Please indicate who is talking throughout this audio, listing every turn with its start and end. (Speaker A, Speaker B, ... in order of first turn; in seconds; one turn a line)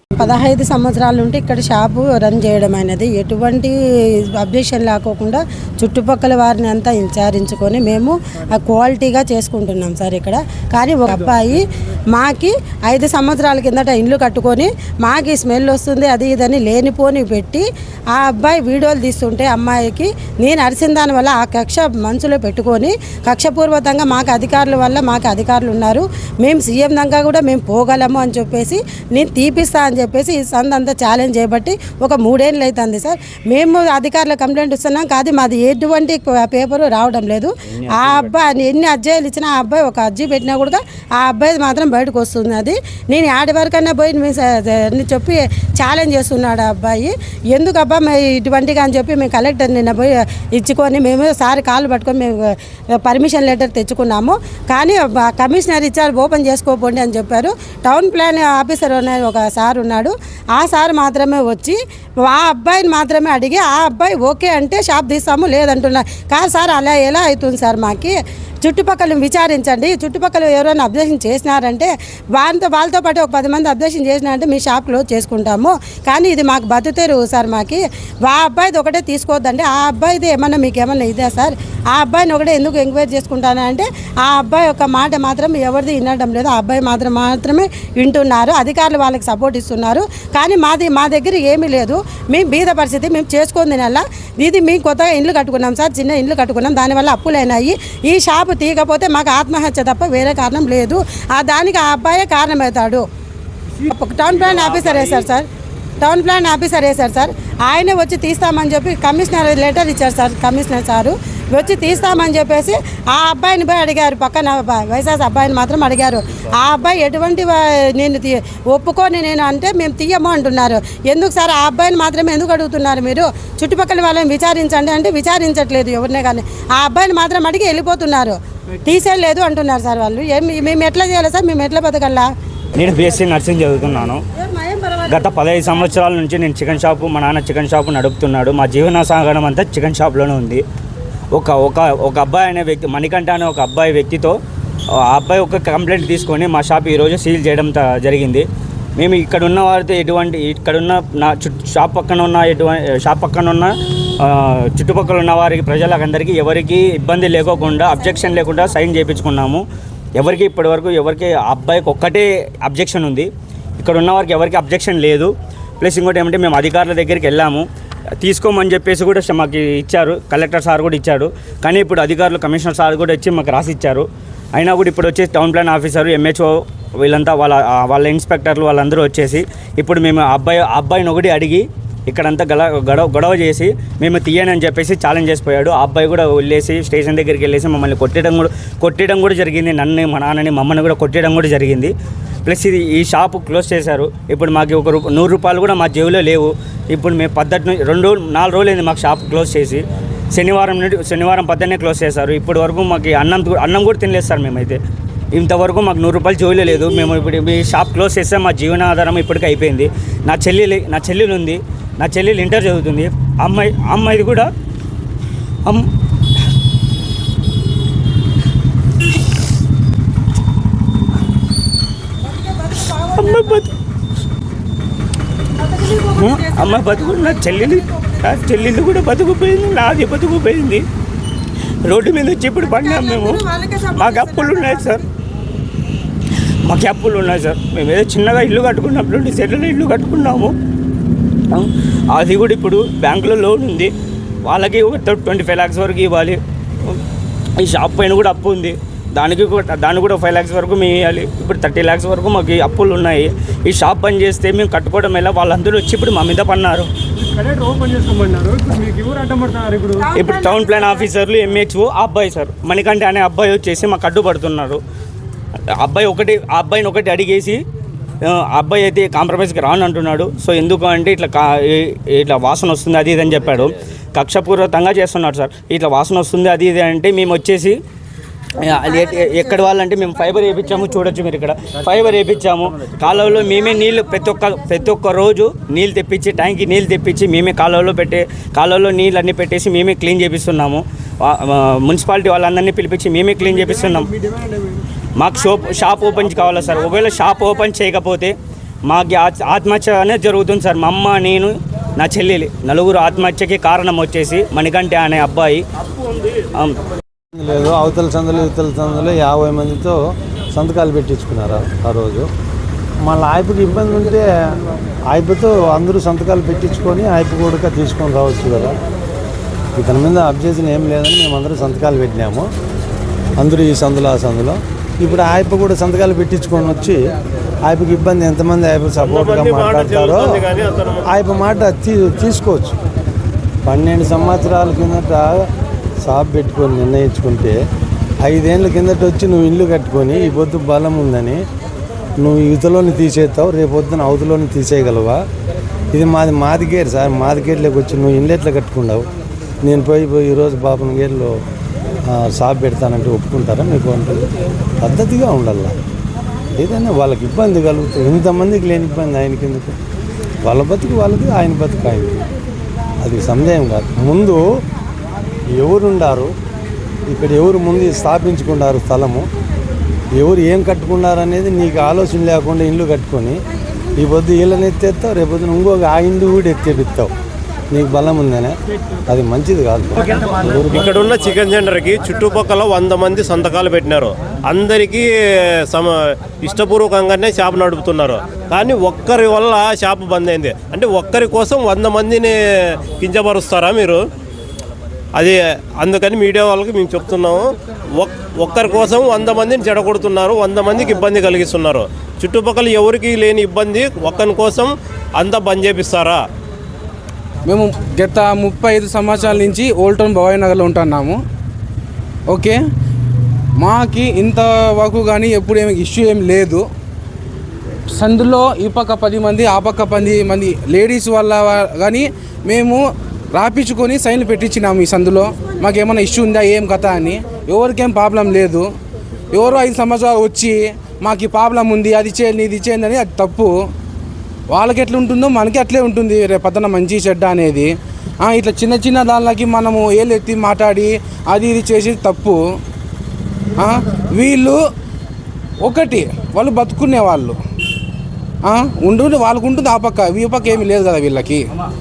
Speaker A: 0.2-3.7
Speaker A: 4.4-103.0
Speaker B: 37.7-38.5
Speaker A: 103.8-105.5
Speaker A: 106.0-132.3
Speaker B: 132.7-134.2
Speaker A: 134.3-135.9
Speaker B: 135.1-140.6
Speaker B: 141.3-144.4
Speaker B: 144.9-148.4
Speaker B: 149.0-159.6
Speaker B: 160.2-167.7
Speaker B: 168.2-191.9
Speaker B: 192.4-199.8
Speaker B: 200.3-204.8
Speaker B: 205.3-214.5
Speaker A: 222.4-223.6
Speaker B: 223.1-223.7
Speaker A: 225.6-228.2
Speaker B: 226.2-230.8
Speaker B: 231.9-233.4
Speaker A: 232.6-235.1
Speaker B: 233.9-235.0
Speaker B: 236.7-240.5
Speaker B: 241.5-243.9
Speaker B: 244.5-247.0
Speaker B: 247.6-256.9
Speaker A: 259.8-260.8
Speaker B: 260.1-264.8
Speaker B: 265.8-267.6
Speaker B: 268.3-277.8
Speaker B: 278.6-294.1
Speaker B: 295.2-298.3
Speaker B: 298.9-305.6
Speaker C: 307.4-310.0
Speaker C: 310.5-312.3
Speaker C: 313.1-314.3
Speaker C: 315.1-318.8
Speaker C: 319.8-322.5
Speaker C: 323.4-327.0
Speaker C: 327.7-330.5
Speaker D: 329.0-331.0
Speaker C: 331.1-332.8
Speaker C: 333.7-335.5
Speaker C: 336.0-337.6
Speaker C: 338.2-341.4
Speaker C: 342.2-345.2
Speaker C: 345.9-349.1
Speaker C: 349.6-351.3
Speaker C: 352.1-354.3
Speaker C: 354.8-355.7
Speaker C: 356.6-359.8
Speaker C: 360.4-362.2
Speaker C: 363.0-364.4
Speaker C: 365.6-366.3
Speaker C: 367.1-369.2
Speaker C: 370.2-373.4
Speaker C: 374.0-377.1
Speaker C: 377.7-378.6
Speaker C: 379.1-380.9
Speaker D: 380.8-385.1
Speaker D: 385.7-392.4
Speaker D: 393.0-394.0
Speaker D: 395.2-406.2
Speaker E: 407.5-411.2
Speaker E: 412.3-412.6
Speaker E: 413.6-416.6
Speaker E: 418.0-422.8
Speaker E: 423.3-428.7
Speaker E: 429.3-433.6
Speaker E: 434.5-442.4
Speaker E: 443.6-444.6
Speaker E: 445.6-447.4
Speaker E: 448.4-451.4